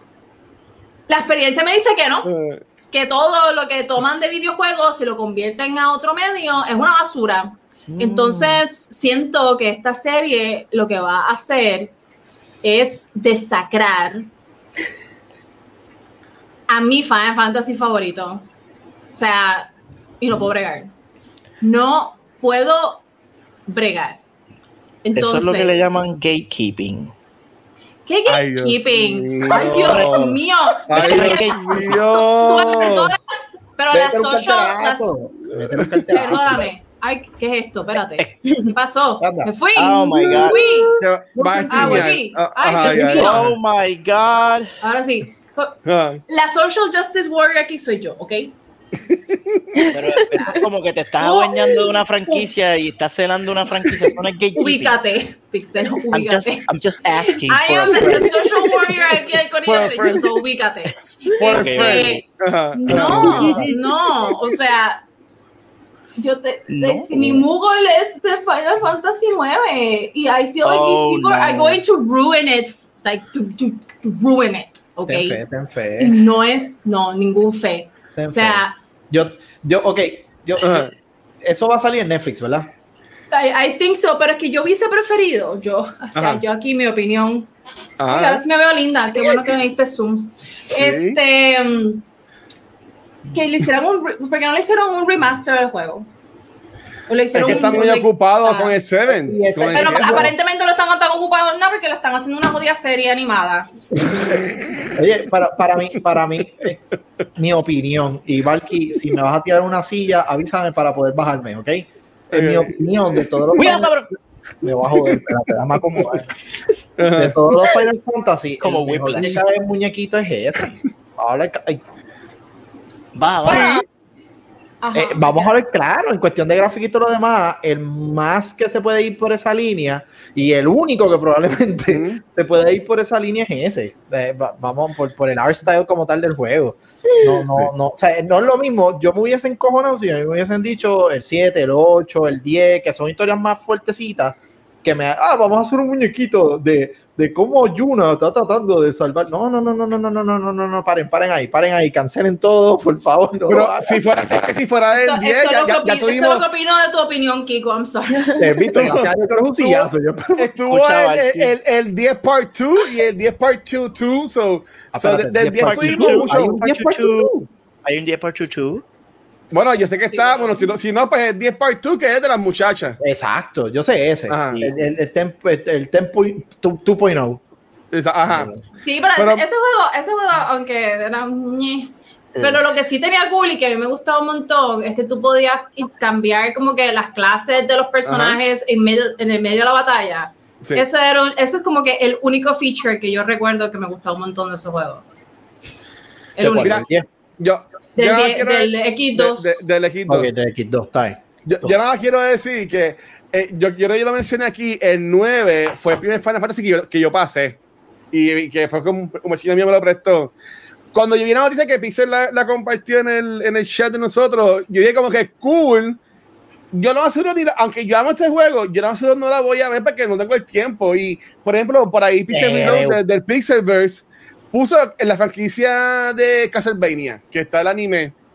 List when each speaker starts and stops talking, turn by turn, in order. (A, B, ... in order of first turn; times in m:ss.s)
0:01.1-0:02.3 A
0:02.3-0:02.6 B
0:02.9-0:11.9 A
0:07.9-0:08.6 C
0:12.6-0:14.3 A
0:16.7-0:18.4 A
0:19.1-0:20.9 A
0:21.6-0:23.0 A
0:23.7-0:24.2 A
0:25.0-0:25.9 A
0:25.1-0:27.1 C
0:28.0-0:35.1 A
0:28.2-0:33.2 B
0:29.5-0:30.3 C
0:30.9-0:32.0 C
0:33.9-0:36.7 D
0:35.8-0:36.3 B
0:36.1-0:41.0 A
0:38.2-0:38.7 C
0:39.2-0:39.5 D
0:39.7-0:40.7 C
0:41.0-0:43.5 B
0:41.4-0:42.1 D
0:41.7-0:43.4 A
0:42.8-0:44.7 C
0:44.8-0:48.5 A
0:45.8-0:46.2 B
0:49.1-0:49.8 B
0:49.9-0:54.9 C
0:50.2-0:50.6 A
0:51.2-0:52.4 A
0:54.5-0:56.6 A
0:56.1-0:58.7 C
0:57.4-1:02.2 A
0:59.6-1:00.3 B
1:01.4-1:03.7 B
1:01.4-1:02.2 C
1:02.8-1:05.0 A
1:02.9-1:03.7 C
1:06.2-1:15.4 A
1:06.7-1:07.4 C
1:10.6-1:11.8 C
1:15.1-1:16.2 D
1:16.0-1:18.7 A
1:18.2-1:20.9 D
1:20.6-1:20.9 B
1:21.4-1:22.7 D
1:23.3-1:27.5 A
1:26.1-1:26.4 B
1:28.0-1:28.4 B
1:28.0-1:32.0 A
1:30.7-1:31.2 B
1:33.3-1:36.1 A
1:37.1-1:38.8 A
1:37.3-1:37.7 D
1:37.3-1:40.3 B
1:39.1-1:40.3 D
1:39.7-1:43.7 A
1:44.0-1:44.4 D
1:44.2-1:44.9 B
1:44.9-1:46.8 D
1:47.4-1:54.0 D
1:52.3-1:53.8 B
1:53.5-1:54.1 C
1:54.6-1:56.3 D
1:54.8-1:56.1 B
1:57.0-1:57.4 B
1:57.0-2:01.8 D
1:58.6-1:59.4 C
2:03.1-2:03.8 C
2:03.4-2:03.8 B
2:03.4-2:03.8 A
2:04.8-2:05.7 A
2:04.9-2:34.0 D
2:11.9-2:12.2 B
2:33.5-2:36.4 B
2:34.9-2:38.6 A
2:38.4-2:40.5 D
2:38.6-2:46.6 B
2:40.7-2:41.5 C
2:44.9-2:47.4 D
2:45.6-2:48.8 C
2:49.5-2:53.0 B
2:50.1-2:50.7 A
2:53.0-2:57.4 D
2:54.3-2:54.6 B
2:57.9-2:58.5 B
2:58.3-2:58.6 D
2:58.8-3:15.0 A
2:59.2-2:59.5 B
3:08.0-3:08.4 B
3:16.4-3:16.8 A
3:16.4-3:17.0 D
3:16.5-3:16.9 B
3:17.4-3:20.3 B
3:18.0-3:19.6 A
3:20.1-3:21.2 D
3:21.4-3:27.6 B
3:28.1-3:30.3 B
3:30.9-3:36.0 B
3:36.7-3:48.1 B
3:42.3-3:43.0 C
3:42.4-3:42.9 D